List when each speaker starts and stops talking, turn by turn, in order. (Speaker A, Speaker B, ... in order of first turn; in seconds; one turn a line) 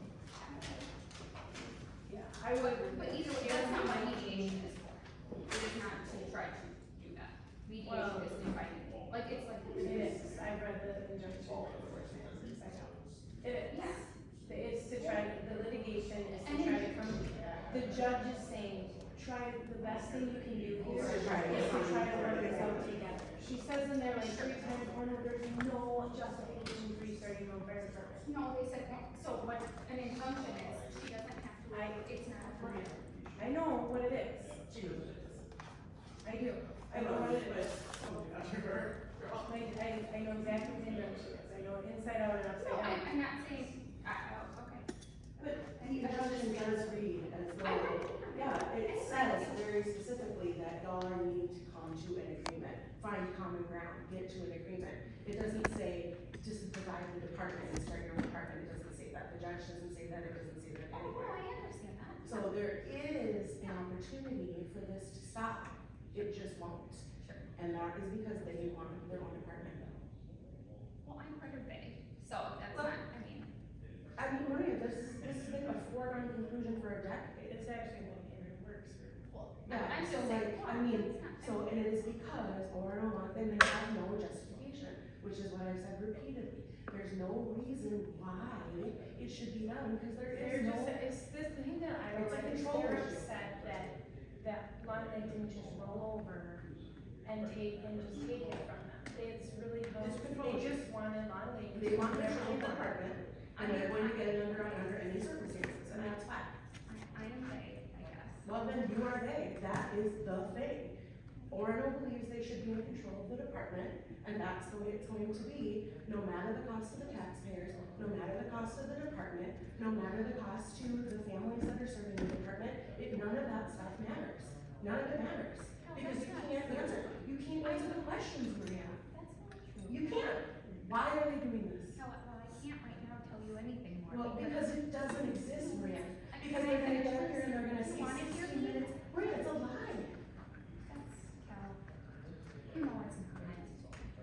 Speaker A: 0.3-0.9
Speaker B: 2.0-4.6
Speaker A: 2.6-10.4
Speaker B: 7.8-8.4
Speaker B: 9.8-28.3
Speaker A: 13.7-14.1
Speaker A: 14.9-15.3
Speaker A: 16.4-17.0
Speaker C: 20.9-22.8
Speaker A: 21.3-21.6
Speaker A: 24.1-24.5
Speaker A: 28.2-33.0
Speaker B: 31.7-34.9
Speaker C: 34.7-35.1
Speaker B: 36.2-38.1
Speaker C: 36.9-39.4
Speaker B: 39.4-43.1
Speaker A: 42.6-44.9
Speaker C: 45.4-61.4
Speaker A: 45.8-49.6
Speaker A: 60.9-62.5
Speaker C: 62.2-69.9
Speaker A: 71.0-73.5
Speaker C: 74.2-77.7
Speaker B: 77.5-79.2
Speaker A: 79.3-81.7
Speaker C: 79.7-91.0
Speaker B: 90.3-96.6
Speaker C: 92.1-93.3
Speaker B: 97.2-102.9
Speaker C: 100.0-100.9
Speaker C: 101.7-106.5
Speaker A: 103.5-105.2
Speaker A: 106.9-108.5
Speaker C: 108.4-111.0
Speaker C: 111.5-129.0
Speaker A: 125.8-128.3
Speaker A: 129.0-130.4
Speaker C: 129.9-132.0
Speaker A: 131.9-139.5
Speaker C: 134.1-140.2
Speaker A: 140.9-141.8
Speaker A: 142.7-144.1